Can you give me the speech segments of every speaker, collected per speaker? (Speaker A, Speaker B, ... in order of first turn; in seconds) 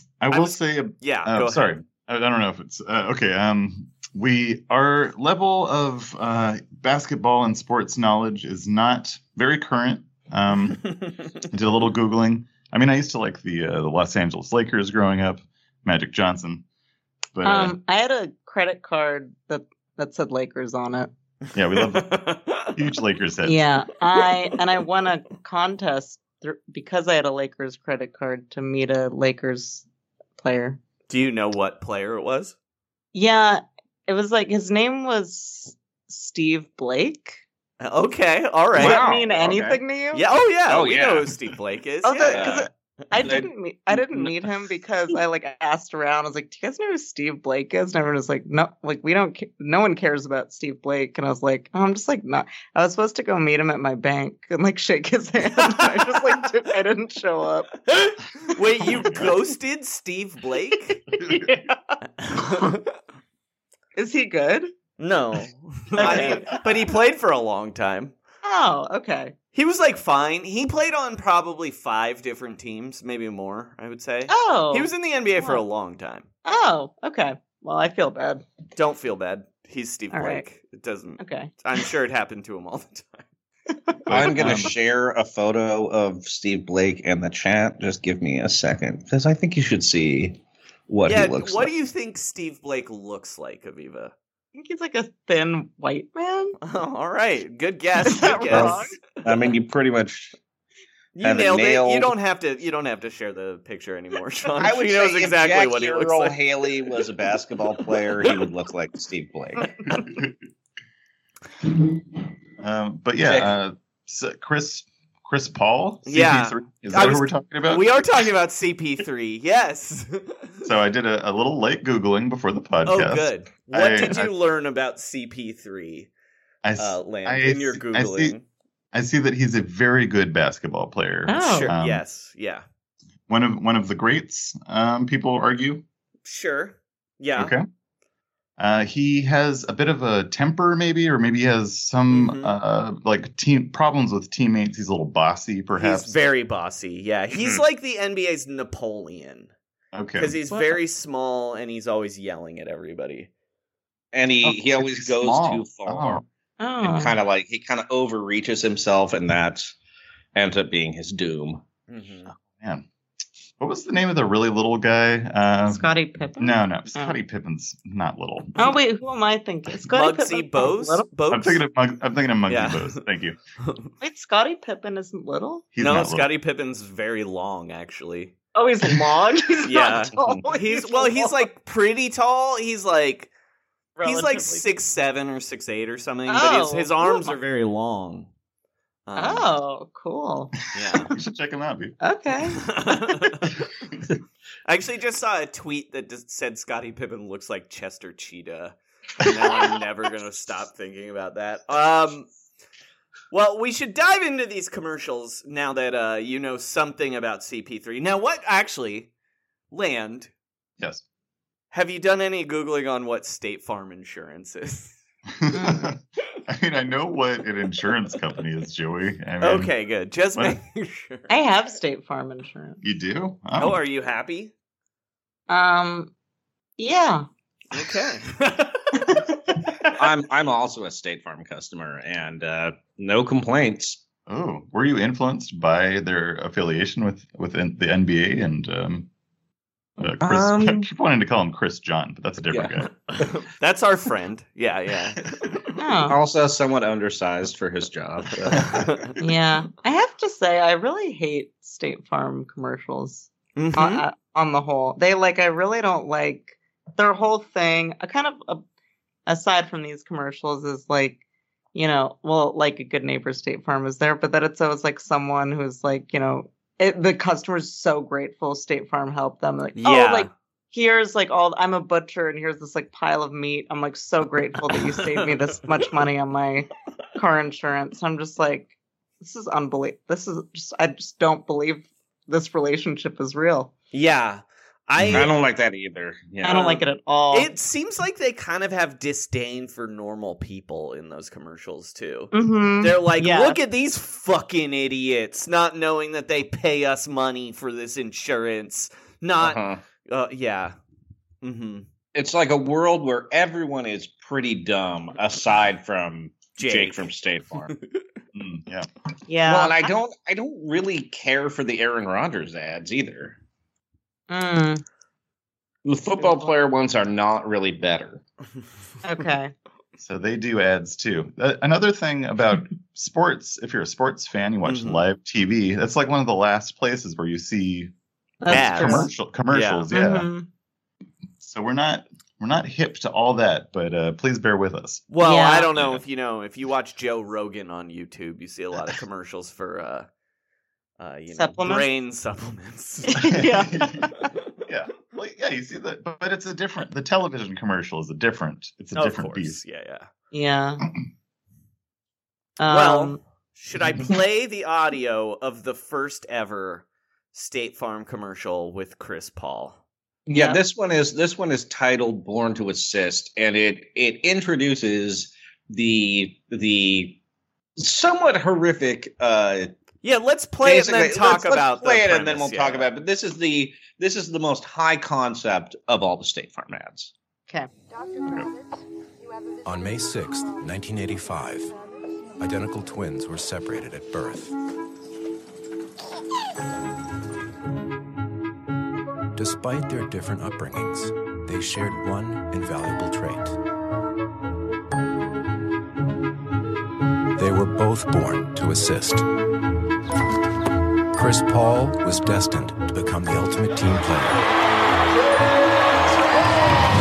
Speaker A: 0.2-10.9, 11.5-16.6, 17.3-17.8, 21.5-23.6, 58.9-59.3, 66.0-66.6, 84.1-84.7, 109.9-110.3, 112.6-118.0, 120.6-124.3, 126.6-128.3, 128.9-132.0, 133.3-135.8, 137.4-137.6, 138.6-146.2, 149.9-150.3, 154.4-156.2, 162.3-162.8, 163.6-168.8, 171.3-173.3, 175.7-176.3, 190.9-191.9, 199.2-199.6, 215.4-219.7, 222.8-223.8, 234.3-239.1, 240.0-242.9, 248.5-248.9, 285.0-285.3, 308.3-308.9, 320.0-327.9, 328.4-330.3, 331.4-335.0, 335.7-336.0, 343.2-344.1, 344.6-349.6
Speaker B: 0.3-1.7, 21.7-22.7, 31.1-32.5, 37.8-39.1, 40.1-42.7, 57.9-61.0, 62.2-62.8, 65.0-68.1, 69.5-76.3, 78.8-83.2, 84.1-84.7, 91.0-94.1, 96.6-99.0, 101.1-106.7, 116.0-120.6, 122.8-126.1, 126.8-128.4, 131.5-132.6, 136.2-137.5, 142.1-142.5, 145.7-149.5, 150.2-153.3, 161.9-162.3, 169.9-171.6, 172.5-173.0, 173.6-173.9, 175.8-178.3, 179.6-183.3, 184.0-188.3, 189.1-189.5, 190.7-191.1, 192.6-193.5, 194.7-202.3, 203.3-209.1, 209.7-210.3, 211.7-215.0, 219.4-221.3, 223.6-224.5, 227.7-228.8, 243.2-245.4, 248.5-249.1, 253.6-254.0, 269.8-270.3, 283.9-285.3, 287.3-300.7, 301.4-301.9, 306.6-308.0, 324.6-325.0, 328.5-329.9, 335.1-340.1, 341.0-343.1, 348.9-350.1, 352.7-359.8, 370.0-372.9
Speaker C: 17.4-21.1, 23.4-29.8, 30.4-30.8, 33.1-37.4, 38.8-40.2, 42.0-57.7, 61.1-61.8, 64.0-64.7, 66.0-66.5, 68.4-69.3, 74.3-75.6, 76.4-78.4, 80.1-80.4, 81.2-81.5, 94.5-96.5, 98.0-98.9, 131.3-131.7, 150.5-150.8, 156.6-157.1, 165.7-167.2, 168.6-171.1, 174.0-175.6, 178.5-181.4, 184.0-184.6, 186.3-187.3, 189.2-190.5, 192.0-192.6, 215.5-215.9, 221.3-222.8, 225.5-226.1, 226.8-227.3, 245.8-246.2, 249.2-258.6, 259.3-261.2, 261.7-283.7, 286.4-287.5, 292.3-293.6, 309.3-309.9, 314.3-314.8, 316.2-316.5, 319.0-319.5, 328.4-329.1, 329.9-330.4, 335.2-335.7, 341.3-341.9, 343.1-344.2, 350.3-350.8, 352.6-353.2, 360.3-360.6
Speaker D: 38.7-39.8, 40.7-41.3, 42.2-42.6, 43.1-44.3, 84.1-91.7, 98.5-100.3, 101.2-102.1, 104.6-109.7, 113.2-113.5, 147.3-147.6, 154.1-156.2, 156.8-159.7, 160.3-161.6, 229.9-234.0, 240.2-240.9, 242.5-242.8, 246.1-248.7, 285.1-286.8, 299.4-299.8, 302.1-307.7, 309.4-313.4, 315.8-318.2, 360.3-367.2, 367.8-369.7, 370.6-377.1
Speaker E: 379.6-381.7, 382.4-384.5, 389.4-393.6, 397.4-399.2, 401.1-404.4